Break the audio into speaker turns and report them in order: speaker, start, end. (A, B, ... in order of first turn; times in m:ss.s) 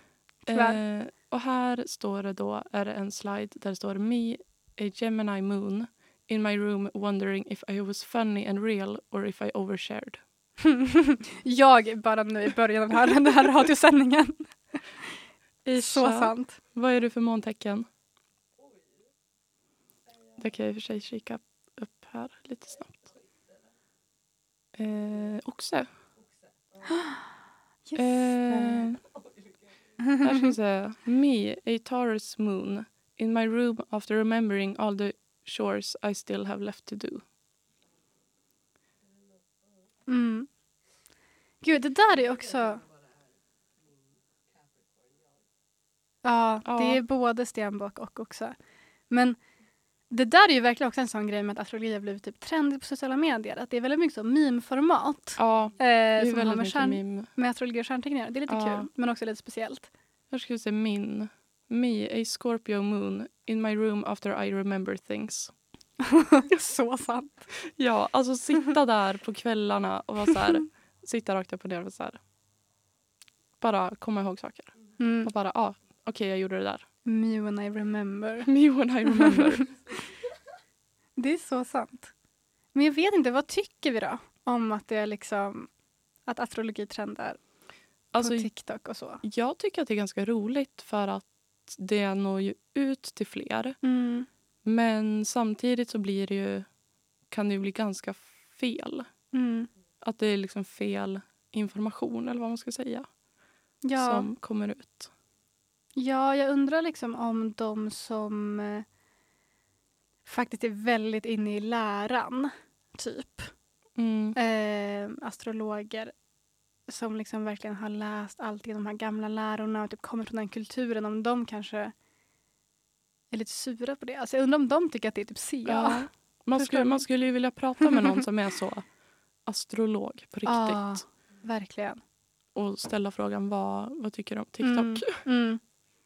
0:00.5-0:00.8 A
0:00.5-0:10.2 B
0:10.6-0:15.2 A
0:15.6-0:17.9 B
0:15.7-0:16.6 A
0:20.4-0:23.1 B
0:24.7-0:25.9 B
0:26.9-0:27.3 A
0:27.9-0:29.0 A
0:28.0-0:29.0 B
0:30.0-0:30.5 A
0:30.2-0:37.2 B
0:40.1-0:40.5 A
0:41.6-0:42.9 A
0:46.2-0:48.5 A
0:46.6-0:47.0 B
0:49.1-0:49.4 A
0:50.1-0:59.9 A
0:55.4-0:57.3 B
0:58.5-0:58.9 B
1:00.3-1:05.5 B
1:06.0-1:07.5 A
1:07.6-1:12.2 B
1:13.6-1:16.8 B
1:15.0-1:15.3 A
1:17.0-1:18.5 A
1:18.4-1:19.7 B
1:19.0-1:19.7 A
1:21.2-1:22.1 A
1:22.7-1:25.7 A
1:26.3-1:27.4 A
1:28.1-1:28.5 B
1:28.2-1:29.2 A
1:29.2-1:33.8 B
1:33.8-1:34.3 A
1:34.6-1:36.7 B
1:37.3-1:39.1 B
1:39.3-1:39.7 A
1:40.0-1:43.1 B
1:43.8-1:44.3 A
1:44.0-1:45.1 B
1:46.0-1:48.8 A
1:50.2-1:53.5 A
1:54.0-1:54.4 B
1:54.4-1:56.1 A
1:56.9-2:01.9 A
2:03.3-2:07.0 A
2:05.6-2:08.8 B
2:07.8-2:08.2 A
2:09.4-2:11.0 B
2:10.4-2:12.0 A
2:12.5-2:15.2 B
2:14.6-2:15.6 A